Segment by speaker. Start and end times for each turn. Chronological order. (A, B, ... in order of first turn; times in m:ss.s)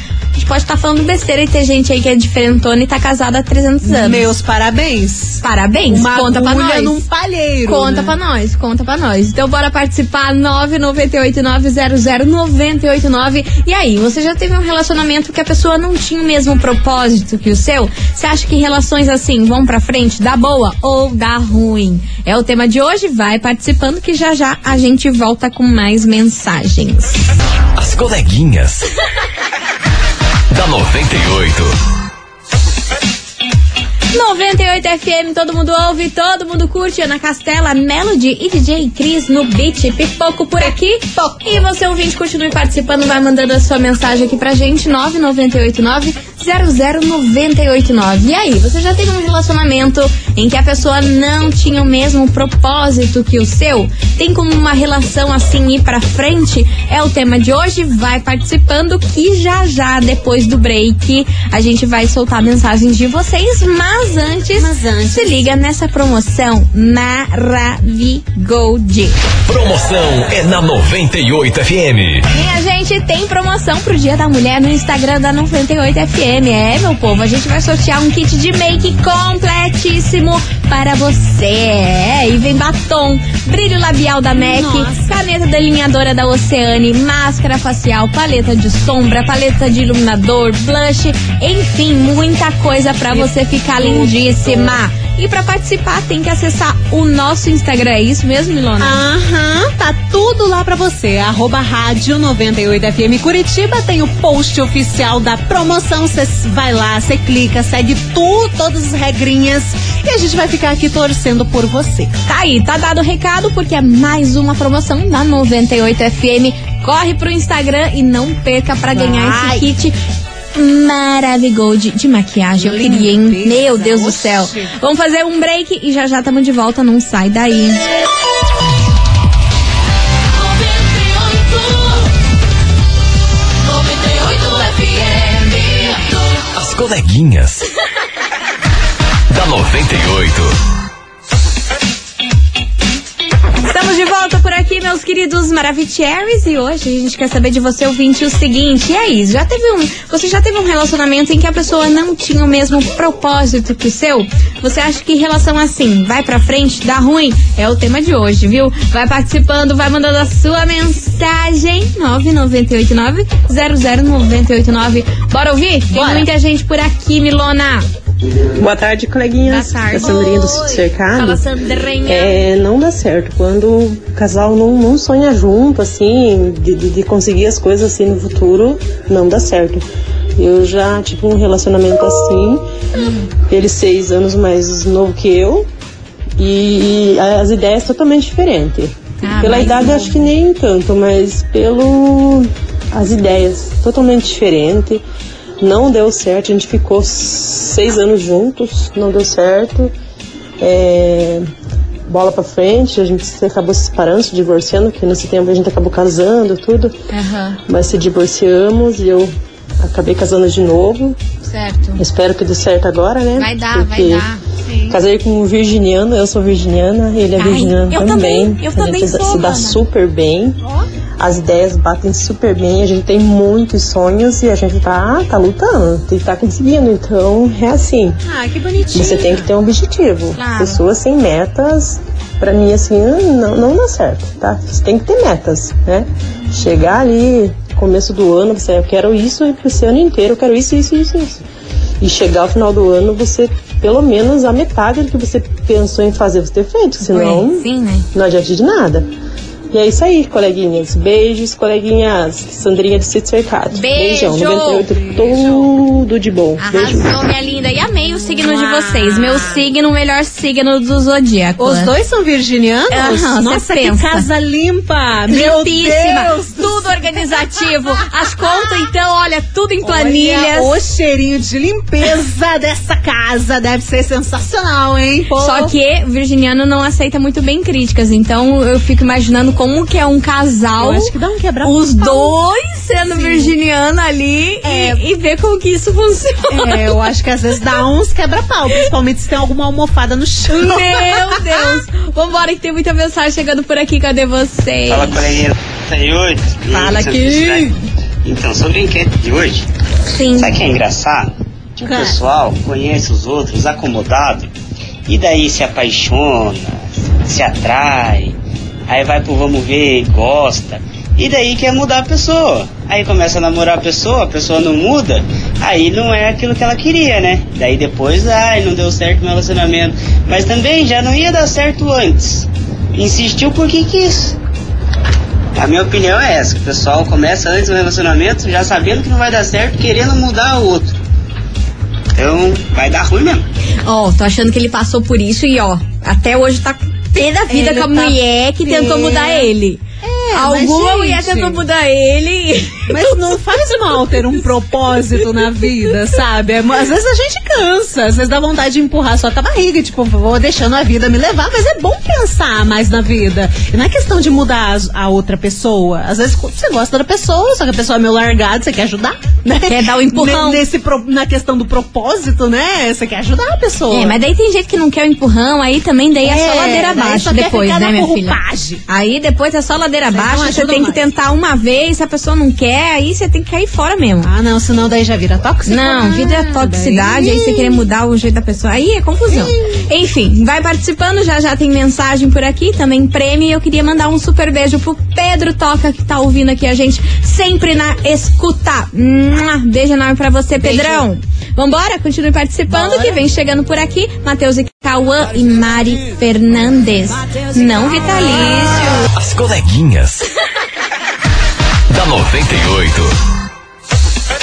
0:00.4-0:04.3 A
0:03.8-0:08.1 B
0:05.4-0:07.0 A
0:07.6-0:27.2 A
0:27.8-0:28.9 C
0:30.5-0:31.7 C
0:34.1-1:09.1 A
0:41.2-0:41.4 B
1:04.5-1:05.5 B
1:09.5-1:12.2 C
1:12.3-1:39.0 A
1:24.3-1:25.1 B
1:33.1-1:34.8 B
1:38.8-1:52.1 B
1:52.2-1:59.9 A
1:58.9-1:59.7 B
2:00.5-2:07.8 A
2:02.6-2:04.7 B
2:14.3-2:14.9 A
2:16.5-2:17.6 C
2:19.3-2:20.5 C
2:23.6-2:47.9 A
2:45.9-2:46.3 B
2:48.6-2:51.4 D
2:49.4-2:52.5 A
2:52.0-2:59.8 D
3:00.4-3:02.6 D
3:03.0-3:03.3 A
3:03.5-3:05.7 D
3:06.4-3:15.0 D
3:09.2-3:10.2 A
3:15.6-3:19.9 D
3:20.6-3:21.4 D
3:22.1-3:27.0 D
3:27.1-3:27.6 A
3:27.7-3:31.2 D
3:31.4-3:32.0 A
3:32.0-3:34.3 D
3:33.4-3:34.4 A
3:34.7-3:35.0 B
3:34.9-3:40.6 D
3:37.4-3:39.8 A
3:41.2-3:48.2 D
3:48.2-3:49.5 B
3:48.9-4:01.4 D
3:50.3-3:50.8 A
4:02.0-4:09.1 D
4:07.0-4:08.1 A
4:09.7-4:17.1 D
4:13.7-4:14.8 A
4:14.8-4:15.7 B
4:16.6-4:21.9 A
4:18.2-4:19.6 B
4:21.6-4:28.9 B
4:22.9-4:24.3 A
4:25.3-4:30.7 A
4:29.8-4:35.7 B
4:35.4-4:41.1 A
4:40.8-4:42.4 B
4:41.6-4:47.0 A
4:43.0-4:43.5 B
4:44.6-4:45.0 B
4:46.5-4:51.8 B
4:50.5-4:55.4 A
4:54.9-4:57.7 E
4:56.7-4:57.7 A
4:58.2-4:59.6 E
5:00.1-5:00.6 A
5:00.3-5:04.5 E
5:01.8-5:02.2 B
5:05.0-5:08.3 E
5:08.9-5:24.4 E
5:25.5-5:30.9 E
5:32.1-5:33.4 E
5:33.9-5:39.8 A
5:37.5-5:39.5 B
5:40.0-5:41.6 B
5:40.3-5:44.2 A
5:42.9-6:04.2 B
5:59.7-6:00.6 A
6:03.9-6:14.3 A
6:06.2-6:08.8 B
6:10.1-6:11.1 B
6:14.2-6:17.9 B
6:15.7-6:39.1 A
6:19.3-6:19.9 B
6:30.6-6:31.0 B
6:32.7-6:33.2 B
6:37.0-6:39.1 B
6:39.1-6:40.2 C
6:41.9-6:43.1 C